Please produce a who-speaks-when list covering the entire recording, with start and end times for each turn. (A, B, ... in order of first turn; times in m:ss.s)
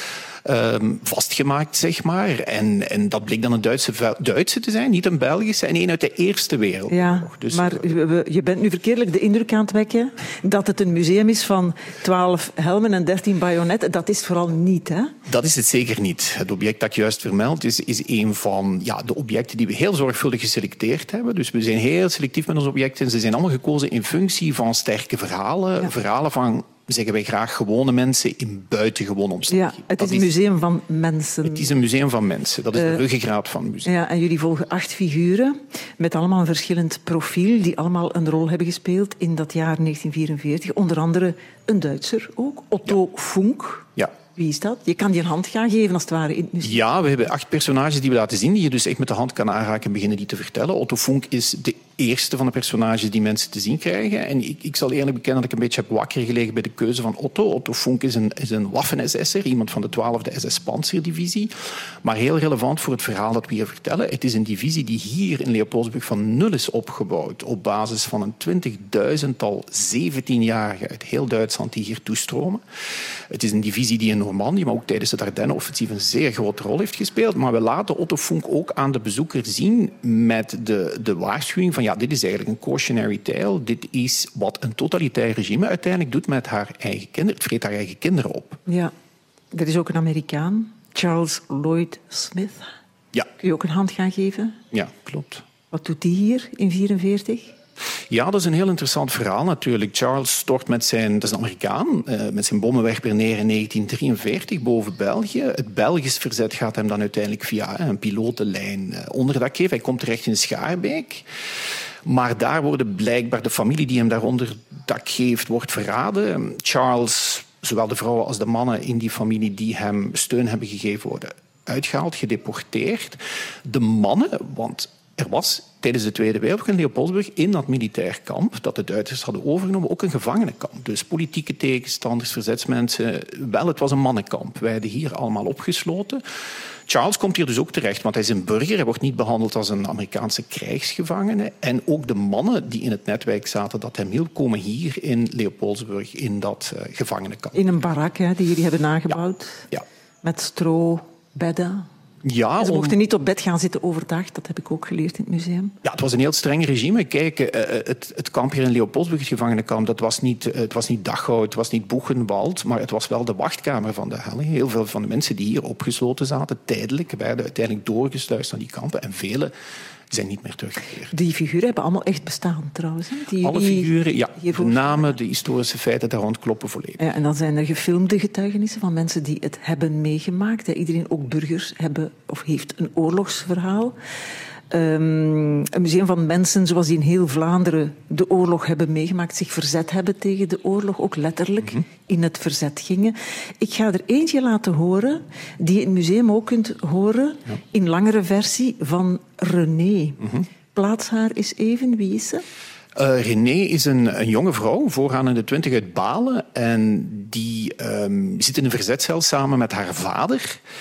0:00.4-0:08.0 A
0:06.9-0:15.2 B
0:15.3-0:30.3 A
0:29.5-0:31.7 B
0:31.4-0:33.9 A
0:33.8-0:46.8 B
0:46.6-1:01.5 A
1:02.0-1:12.6 A
1:13.3-1:28.6 A
1:28.7-1:28.9 B
1:29.5-1:32.7 B
1:33.4-1:34.6 B
1:34.7-1:35.4 A
1:35.7-1:37.5 B
1:38.1-1:51.3 A
1:52.0-2:16.2 A
2:16.9-2:27.7 A
2:27.5-2:29.6 B
2:30.2-2:31.9 B
2:32.2-2:33.0 A
2:32.6-2:35.7 B
2:35.8-2:49.5 A
2:50.1-2:51.1 A
2:51.1-2:55.1 B
2:53.4-2:57.0 A
2:57.0-3:04.0 B
3:04.7-3:20.2 B
3:20.2-3:20.5 A
3:20.8-3:22.4 B
3:23.0-3:30.6 A